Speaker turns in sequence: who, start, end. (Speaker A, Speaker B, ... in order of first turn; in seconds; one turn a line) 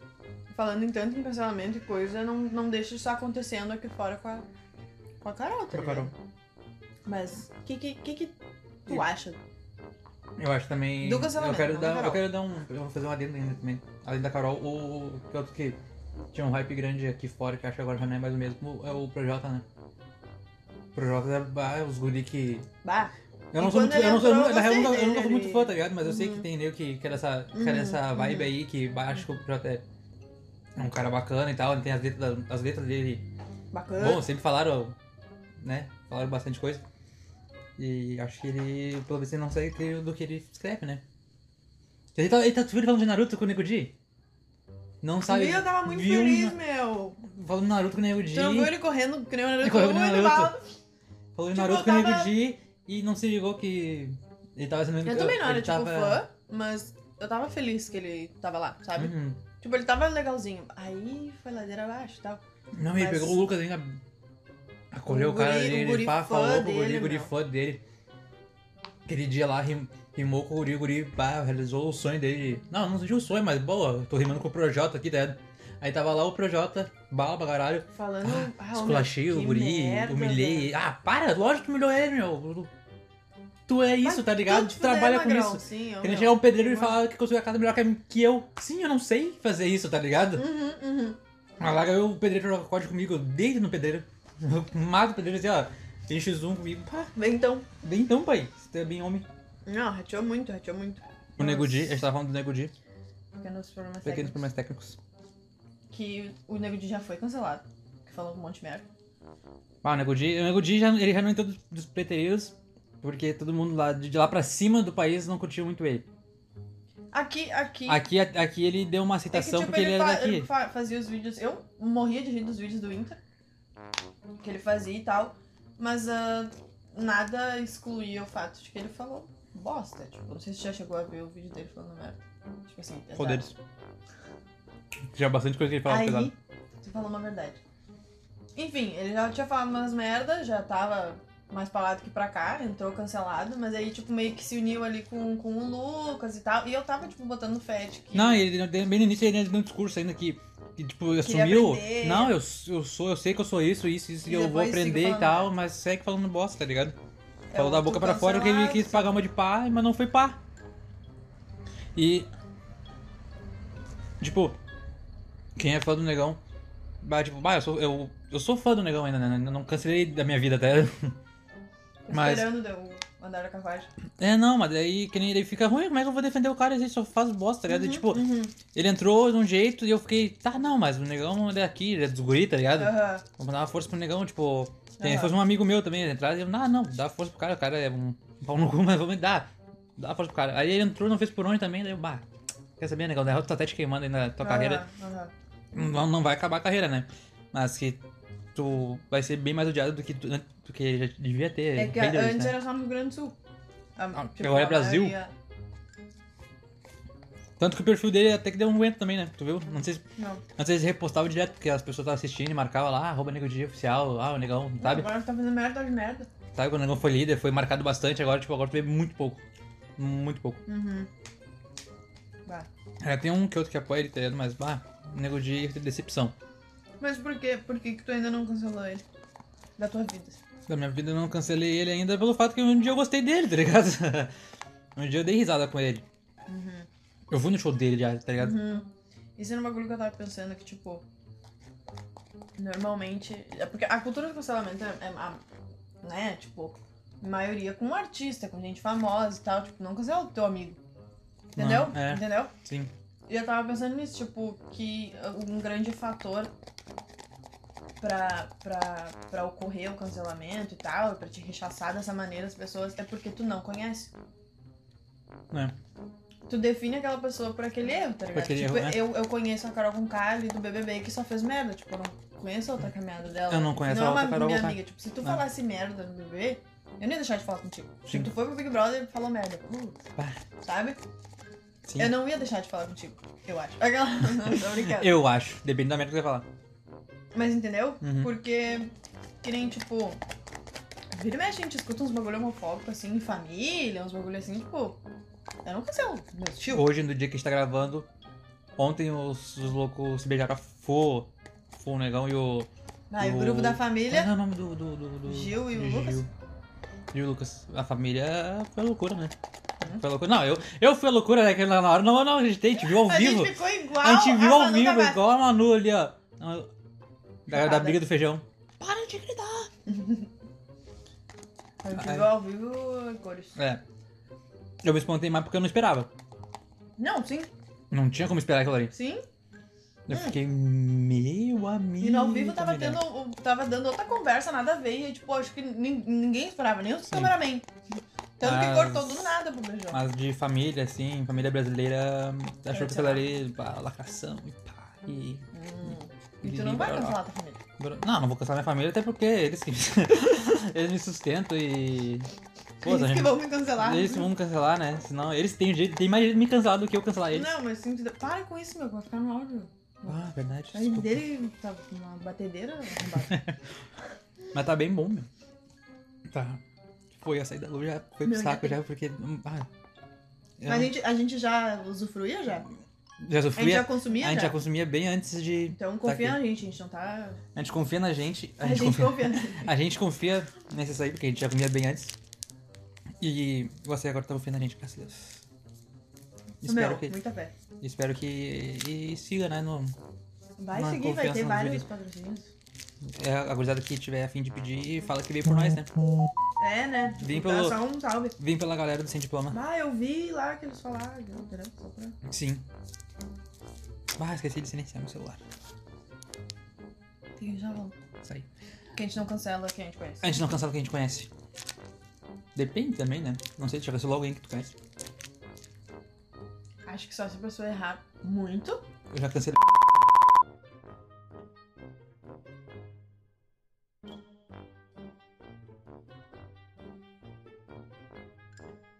Speaker A: 0.5-4.5
Speaker A: 5.2-6.1
Speaker B: 5.7-6.1
Speaker A: 7.0-9.4
Speaker B: 10.4-15.8
Speaker A: 11.0-12.3
Speaker B: 16.3-19.6
Speaker B: 20.9-22.7
Speaker A: 22.8-26.5
Speaker B: 23.5-29.8
Speaker A: 27.5-28.5
Speaker B: 30.8-33.2
Speaker A: 33.7-34.2
Speaker B: 34.0-35.0
Speaker B: 35.6-36.8
Speaker B: 37.8-41.0
Speaker B: 42.1-43.9
Speaker B: 45.0-46.5
Speaker A: 45.2-47.2
Speaker B: 47.2-48.7
Speaker A: 48.3-50.7
Speaker B: 49.6-50.5
Speaker B: 51.3-56.2
Speaker A: 51.5-52.3
Speaker A: 55.0-62.4
Speaker B: 59.0-59.4
Speaker B: 62.7-64.0
Speaker A: 62.9-63.4
Speaker B: 64.9-67.8
Speaker A: 65.1-67.3
Speaker B: 69.0-82.7
Speaker A: 77.9-80.7
Speaker B: 83.7-90.5
Speaker A: 84.0-87.0
Speaker A: 90.3-91.2
Speaker B: 91.6-97.1
Speaker A: 97.2-97.7
Speaker B: 97.8-99.3
Speaker A: 99.7-102.0
Speaker B: 101.4-102.7
Speaker A: 103.3-104.4
Speaker B: 104.0-105.0
Speaker A: 105.9-108.9
Speaker B: 109.8-116.0
Speaker A: 117.1-118.0
Speaker B: 117.9-120.5
Speaker A: 119.3-123.2
Speaker A: 124.4-133.5
Speaker B: 133.2-133.5
Speaker B: 135.1-136.3
Speaker A: 135.8-137.6
Speaker A: 138.6-148.4
Speaker B: 148.1-156.9
Speaker A: 151.2-152.4
Speaker A: 154.2-155.5
Speaker A: 157.5-159.2
Speaker B: 157.5-160.4
Speaker B: 161.9-162.3
Speaker B: 164.2-164.6
Speaker B: 165.6-166.4
Speaker B: 167.0-171.2
Speaker A: 172.1-173.9
Speaker B: 172.1-172.5
Speaker B: 174.2-192.2
Speaker A: 177.7-178.5
Speaker A: 182.8-183.2
Speaker A: 185.0-185.4
Speaker B: 192.8-194.8
Speaker A: 194.4-195.3
Speaker B: 195.7-198.0
Speaker B: 198.5-202.6
Speaker A: 201.7-203.3
Speaker A: 204.0-205.3
Speaker B: 204.1-205.2
Speaker B: 207.6-210.0
Speaker A: 210.2-210.4
Speaker B: 210.6-215.1
Speaker A: 214.8-216.3
Speaker B: 216.5-219.4
Speaker B: 220.0-220.6
Speaker A: 220.7-221.1
Speaker B: 223.0-226.3
Speaker A: 227.0-229.0
Speaker A: 229.8-230.4
Speaker B: 230.7-234.3
Speaker B: 234.9-236.0
Speaker A: 236.5-236.9
Speaker B: 237.3-238.6
Speaker A: 238.4-241.0
Speaker A: 242.6-245.4
Speaker A: 246.0-250.8
Speaker A: 251.6-252.5
Speaker B: 251.6-252.9
Speaker A: 253.3-256.5
Speaker A: 258.0-264.1
Speaker A: 266.5-280.0
Speaker B: 268.3-269.0
Speaker B: 273.5-275.4
Speaker A: 280.6-281.0
Speaker B: 281.9-282.1
Speaker A: 282.0-285.2
Speaker B: 284.3-286.4
Speaker A: 287.3-288.9
Speaker B: 288.0-288.3
Speaker A: 289.4-290.2
Speaker A: 291.1-295.0
Speaker A: 295.6-296.9
Speaker B: 296.7-298.1
Speaker B: 298.8-302.7
Speaker A: 303.1-304.3
Speaker B: 303.2-306.3
Speaker A: 305.2-306.2
Speaker B: 307.1-309.3
Speaker B: 309.9-316.7
Speaker A: 312.8-315.2
Speaker B: 317.5-319.7
Speaker A: 317.5-318.0
Speaker A: 319.9-320.3
Speaker A: 321.8-323.6
Speaker B: 321.9-322.3
Speaker B: 323.6-323.8
Speaker B: 324.8-326.1
Speaker A: 327.0-327.5
Speaker B: 327.9-328.9
Speaker A: 328.9-329.2
Speaker B: 330.1-333.0
Speaker A: 330.1-330.4
Speaker A: 332.0-337.7
Speaker A: 338.4-340.0
Speaker B: 338.4-339.3
Speaker B: 339.9-347.2
Speaker A: 342.7-343.2
Speaker A: 345.5-347.6
Speaker B: 347.8-352.3
Speaker B: 352.8-357.5
Speaker A: 352.8-354.3
Speaker A: 357.3-360.2
Speaker B: 360.1-361.2
Speaker A: 360.7-363.4
Speaker B: 363.1-363.6
Speaker B: 364.5-365.3
Speaker B: 366.3-366.6
Speaker B: 367.1-369.7
Speaker A: 368.2-368.8
Speaker B: 370.6-370.9
Speaker A: 370.6-372.7
Speaker B: 373.2-376.4
Speaker A: 373.6-374.6
Speaker A: 375.8-377.4
Speaker B: 377.5-382.1
Speaker A: 378.6-379.7
Speaker B: 383.2-385.4
Speaker B: 386.6-387.1
Speaker A: 386.6-387.5
Speaker B: 387.8-389.9
Speaker A: 390.6-392.5
Speaker B: 390.7-391.8
Speaker B: 393.0-396.1
Speaker A: 396.6-398.4
Speaker B: 397.1-397.8
Speaker B: 398.4-399.6
Speaker A: 399.5-402.1
Speaker B: 402.2-402.6
Speaker B: 404.2-405.4
Speaker A: 407.4-407.9
Speaker A: 408.9-410.4
Speaker B: 410.2-411.3
Speaker B: 412.5-414.7
Speaker A: 416.9-418.8
Speaker B: 419.1-419.6